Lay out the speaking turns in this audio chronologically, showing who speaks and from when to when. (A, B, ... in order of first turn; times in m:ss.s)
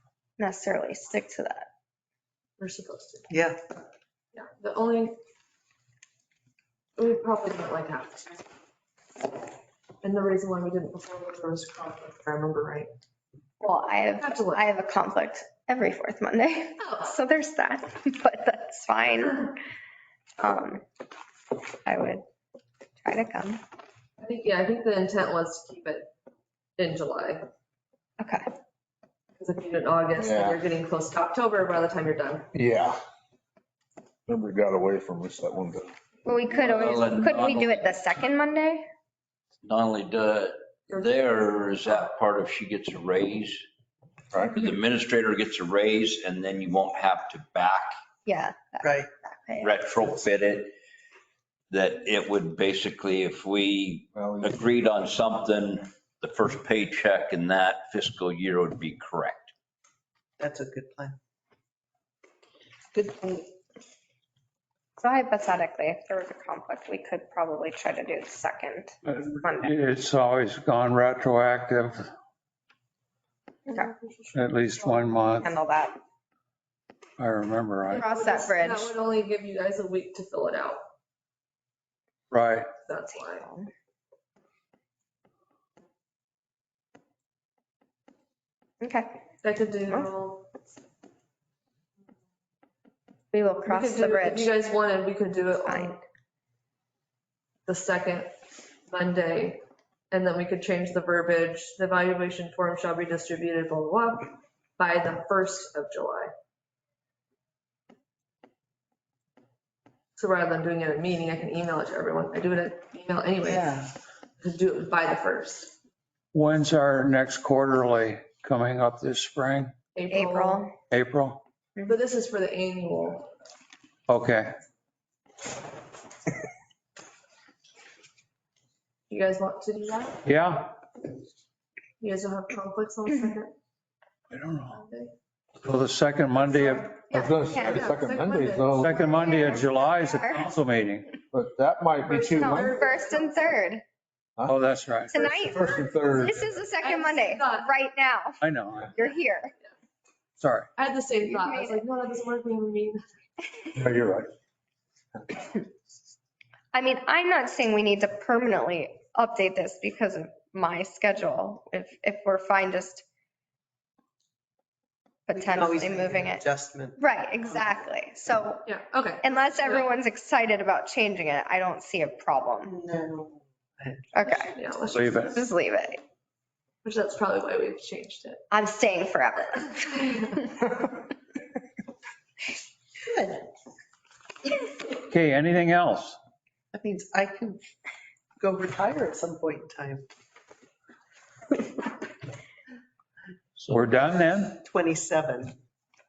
0:00.4-0:01.7 A
0:02.6-0:03.3 B
0:03.3-0:03.6 C
0:04.3-0:05.2 B
0:07.0-0:08.4 B
0:10.0-0:12.9 B
0:13.6-0:19.6 A
0:14.2-0:14.7 B
0:16.8-0:17.2 B
0:20.4-0:20.8 A
0:21.8-0:22.2 A
0:23.0-0:23.6 A
0:24.2-0:26.1 B
0:26.8-0:27.5 B
0:28.2-0:28.5 A
0:29.4-0:32.5 B
0:30.2-0:30.6 D
0:32.5-0:33.0 D
0:34.3-0:35.9 D
0:36.2-0:38.9 A
0:36.5-0:38.0 E
0:39.6-0:43.6 E
0:44.3-0:44.7 D
0:44.4-0:47.9 E
0:48.3-0:49.9 A
0:48.8-0:49.1 C
0:49.6-0:50.7 E
0:51.7-0:59.5 E
0:54.1-0:54.6 D
1:00.4-1:01.2 C
1:02.9-1:03.5 C
1:05.0-1:09.7 A
1:09.0-1:12.1 F
1:13.7-1:15.5 B
1:14.4-1:15.5 F
1:15.4-1:16.0 A
1:17.2-1:18.1 F
1:17.9-1:20.8 B
1:18.0-1:18.9 A
1:22.3-1:22.7 F
1:22.9-1:23.5 B
1:23.1-1:23.7 A
1:28.8-1:29.1 A
1:29.4-1:30.5 B
1:33.3-1:34.5 A
1:33.6-1:36.0 B
1:35.7-1:36.0 A
1:37.7-1:38.3 B
1:38.9-1:46.3 B
1:50.2-1:53.8 B
1:53.4-1:53.9 C
1:54.4-1:55.7 B
1:56.3-1:59.7 F
2:00.0-2:00.7 B
2:00.1-2:00.7 A
2:00.9-2:01.4 F
2:01.9-2:03.3 B
2:04.1-2:04.6 F
2:09.1-2:10.2 B
2:10.3-2:10.7 F
2:12.0-2:13.5 B
2:14.3-2:14.8 F
2:14.7-2:15.1 B
2:15.6-2:17.0 F
2:16.5-2:17.9 A
2:17.0-2:19.6 B
2:17.1-2:19.0 D
2:18.7-2:21.2 F
2:19.0-2:20.5 A
2:21.3-2:22.8 D
2:22.0-2:23.6 B
2:22.2-2:23.8 A
2:24.5-2:25.1 F
2:25.1-2:28.4 A
2:25.2-2:26.4 D
2:26.8-2:27.7 B
2:28.4-2:28.9 F
2:28.9-2:29.5 A
2:30.4-2:30.7 F
2:30.8-2:33.0 B
2:31.2-2:31.8 A
2:33.8-2:34.3 D
2:36.7-2:43.0 A
2:45.3-2:46.4 A
2:45.3-2:47.0 C
2:47.0-2:48.7 A
2:48.7-2:49.9 B
2:49.2-2:52.8 A
2:52.6-2:54.1 C
2:54.1-2:54.5 A
2:54.2-2:55.4 B
2:54.9-2:55.3 F
2:55.3-2:56.0 A
2:56.8-2:58.4 B
2:58.5-3:00.4 A
3:03.0-3:03.5 C
3:05.1-3:06.2 F
3:06.7-3:07.6 C
3:08.4-3:10.1 C
3:13.6-3:14.6 F
3:14.6-3:15.6 C